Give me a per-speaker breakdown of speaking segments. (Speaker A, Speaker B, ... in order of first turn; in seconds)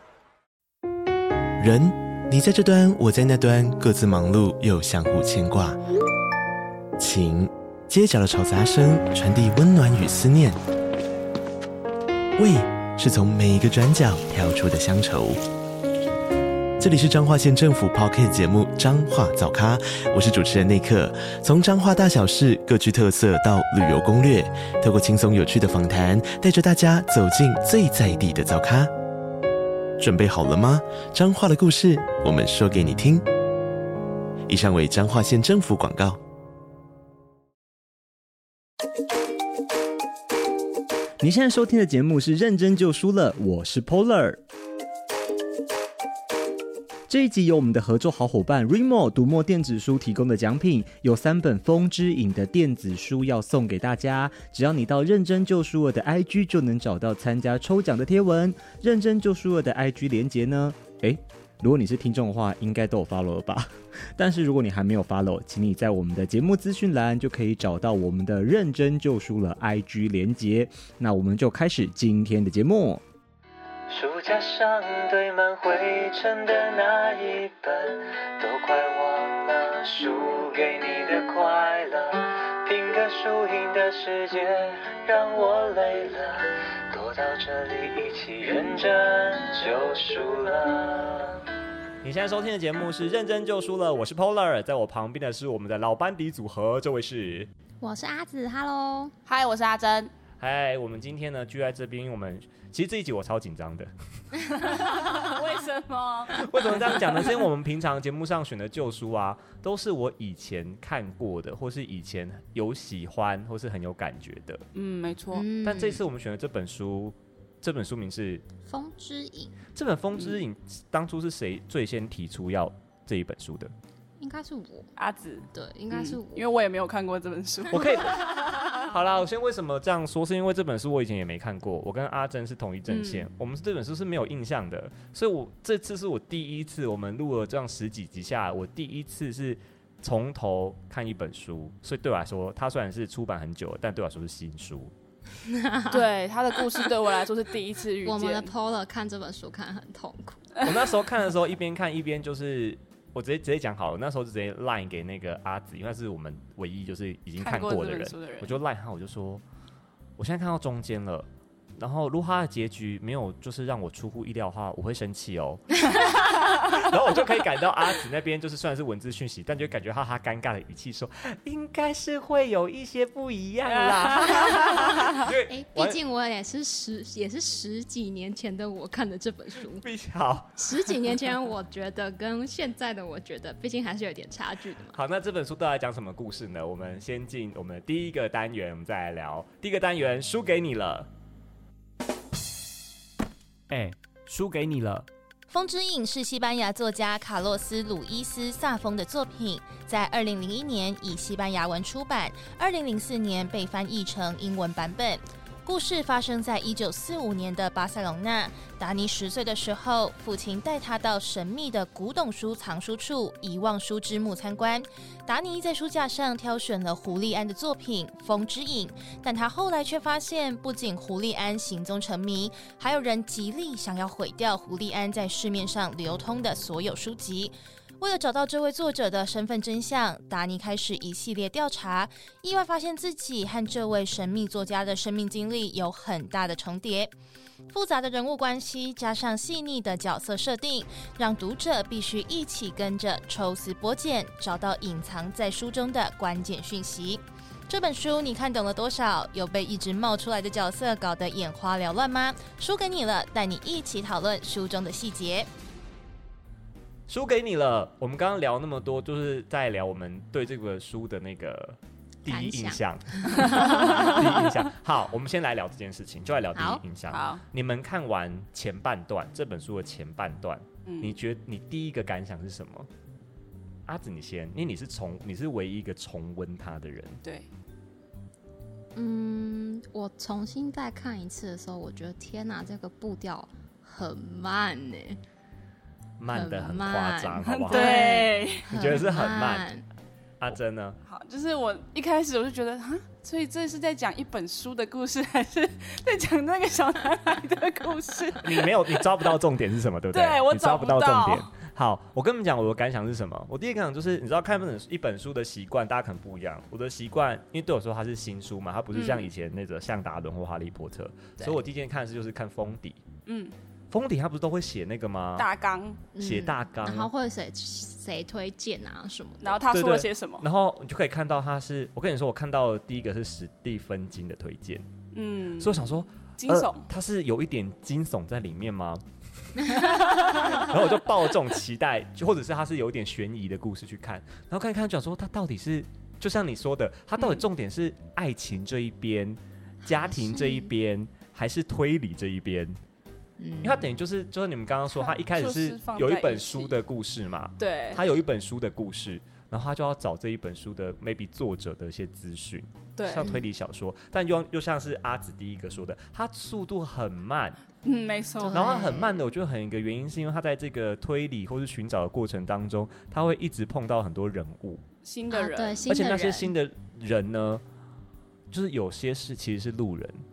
Speaker A: 1.6-5.8, 7.0-10.6, 12.4-15.4, 16.8-28.9, 30.0-33.3, 34.5-36.2
Speaker B: 41.2-44.4, 47.1-73.0
Speaker C: 73.9-91.4
Speaker D: 92.0-97.5, 100.4-103.9, 106.3-114.6, 115.6-118.4, 119.8-123.7, 127.7-144.9, 150.6-159.4, 160.2-176.0, 179.8-180.6, 184.9-191.1, 193.7-195.1, 257.1-272.9, 273.9-277.2, 286.2-289.7, 290.4-291.0, 298.4-313.0, 313.9-315.5, 316.2-317.1, 319.7-324.9, 325.6-342.8, 343.6-357.6, 358.5-364.8, 365.9-367.6, 368.5-370.2
Speaker E: 97.8-99.1, 115.3-116.0, 118.7-119.6, 124.2-124.9, 125.5-126.5, 145.4-146.0, 148.0-150.6, 175.5-179.8, 180.6-185.0, 262.3-264.2, 266.6-266.8, 279.0-285.2, 286.3-289.8, 316.1-319.6, 339.8-340.7, 343.4-343.9, 353.2-353.5, 358.4-359.2, 365.3-366.6
Speaker F: 99.3-100.1, 104.5-107.5, 114.7-115.5, 120.2-120.4, 125.0-128.7, 132.9-133.3, 145.9-148.5, 157.4-158.6, 173.7-175.2, 263.6-264.1, 267.1-267.4, 270.9-271.2, 287.4-288.7, 291.1-299.4, 300.1-301.5, 308.9-309.3, 313.3-313.6, 315.4-316.1, 319.4-320.5, 325.1-326.9, 329.8-330.7, 337.2-337.5, 344.9-346.8, 347.6-348.2, 353.0-353.4, 357.8-358.9, 365.0-365.9
Speaker G: 195.5-237.1, 237.7-255.5